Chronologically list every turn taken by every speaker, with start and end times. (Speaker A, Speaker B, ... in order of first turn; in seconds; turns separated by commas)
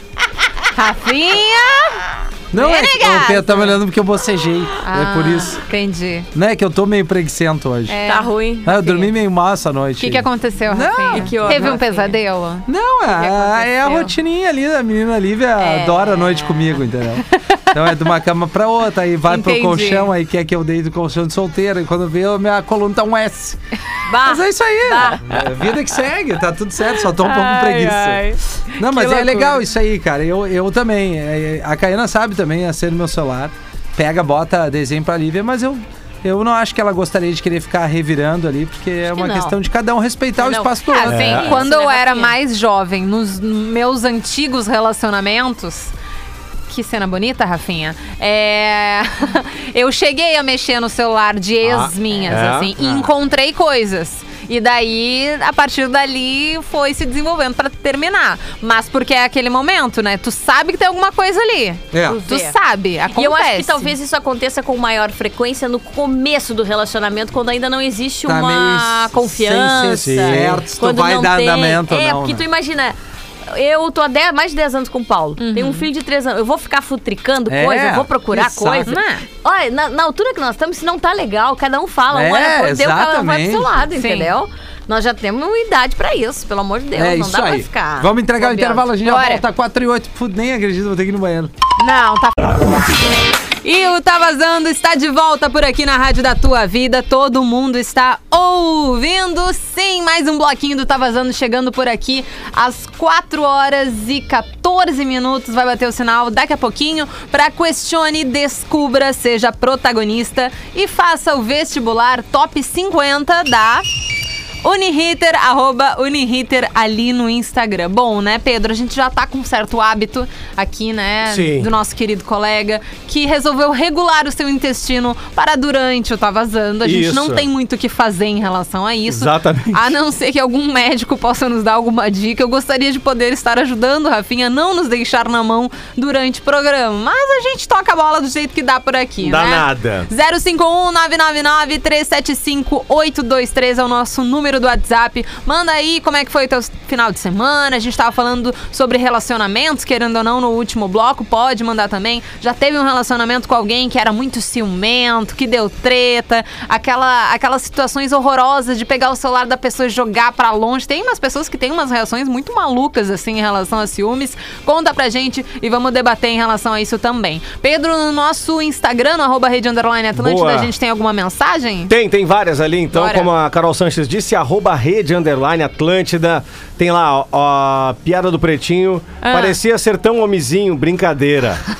Speaker A: 0.7-3.8, Speaker B: 2.5-5.6, Speaker A: 4.8-6.3, Speaker B: 6.3-8.0, Speaker A: 7.9-8.3, Speaker C: 8.0-9.1, Speaker B: 8.6-11.8, Speaker A: 10.0-14.1, Speaker C: 11.1-12.1, Speaker B: 12.7-23.6, Speaker C: 15.6-16.8, Speaker A: 19.3-20.1, Speaker C: 24.1-25.4, Speaker B: 24.2-28.2, Speaker A: 26.9-29.6, Speaker B: 28.8-41.4, Speaker C: 39.0-39.5, Speaker C: 40.4-42.3, Speaker A: 40.9-45.9, Speaker D: 41.1-41.6, Speaker A: 46.7-63.9, Speaker D: 51.6-53.0, Speaker B: 61.9-62.2, Speaker C: 62.0-62.5, Speaker C: 63.1-72.9, Speaker B: 68.2-72.4, Speaker D: 70.0-70.6, Speaker C: 73.5-88.9, Speaker A: 75.4-75.9, Speaker B: 77.5-78.9, Speaker A: 78.9-79.2, Speaker B: 82.1-83.7, Speaker A: 83.9-84.3, Speaker B: 87.0-91.5, Speaker A: 89.0-89.4, Speaker A: 91.8-93.0, Speaker A: 93.6-113.8, Speaker A: 114.6-171.9, Speaker D: 121.2-121.7, Speaker D: 126.8-127.5, Speaker D: 129.1-129.9, Speaker D: 139.2-140.1, Speaker D: 170.2-170.7, Speaker D: 171.9-181.6, Speaker A: 172.9-173.3, Speaker A: 179.2-179.6